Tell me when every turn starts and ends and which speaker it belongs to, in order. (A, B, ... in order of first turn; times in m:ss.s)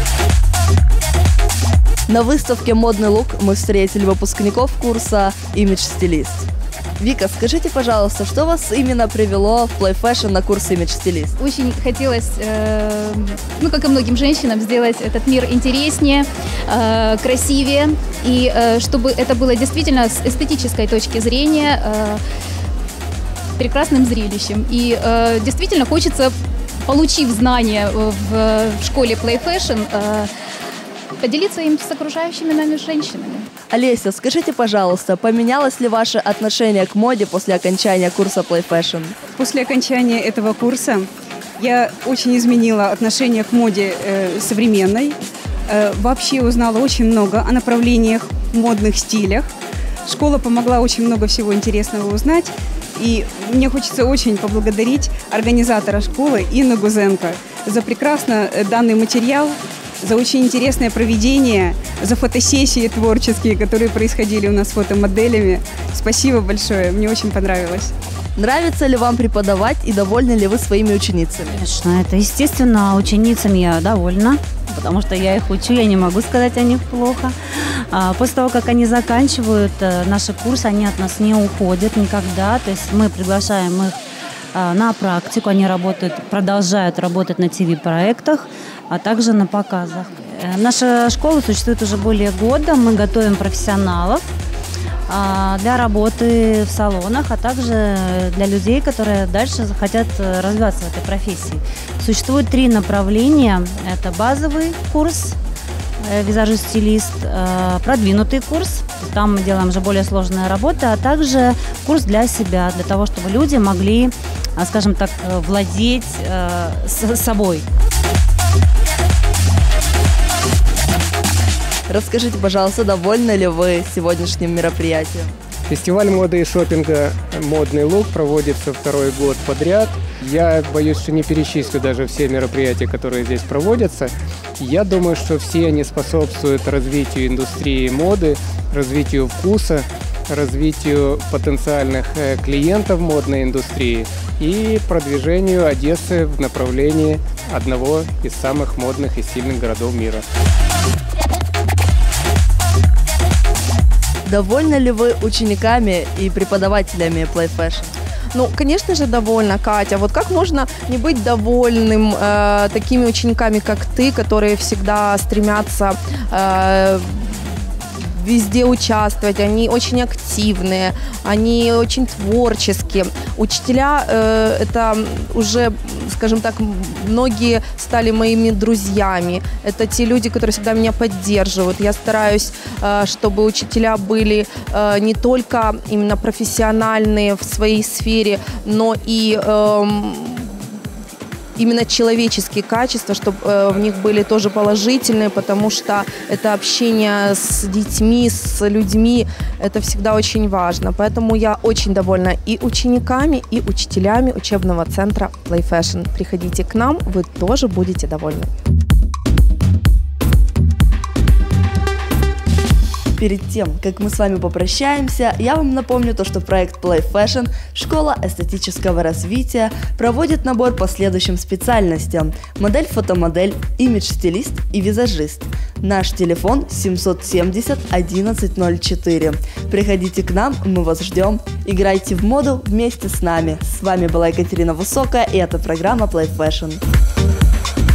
0:02.1-0:06.5 A
0:07.0-0:11.3 A
0:11.4-0:16.2 B
0:16.8-0:22.2 B
0:23.6-0:26.3 B
0:26.9-0:30.3 B
0:31.2-0:31.5 B
0:33.7-0:39.2 A
0:39.3-0:49.5 C
0:50.0-1:07.9 C
1:08.4-1:11.6 A
1:11.5-1:17.3 D
1:17.9-1:24.0 D
1:24.5-1:34.3 D
1:35.1-1:45.4 D
1:46.0-1:57.6 D
2:01.9-2:05.3 A
2:05.7-2:30.2 E
2:34.2-2:37.9 A
2:38.3-3:10.8 F
3:11.6-3:28.5 F
3:33.2-3:56.8 A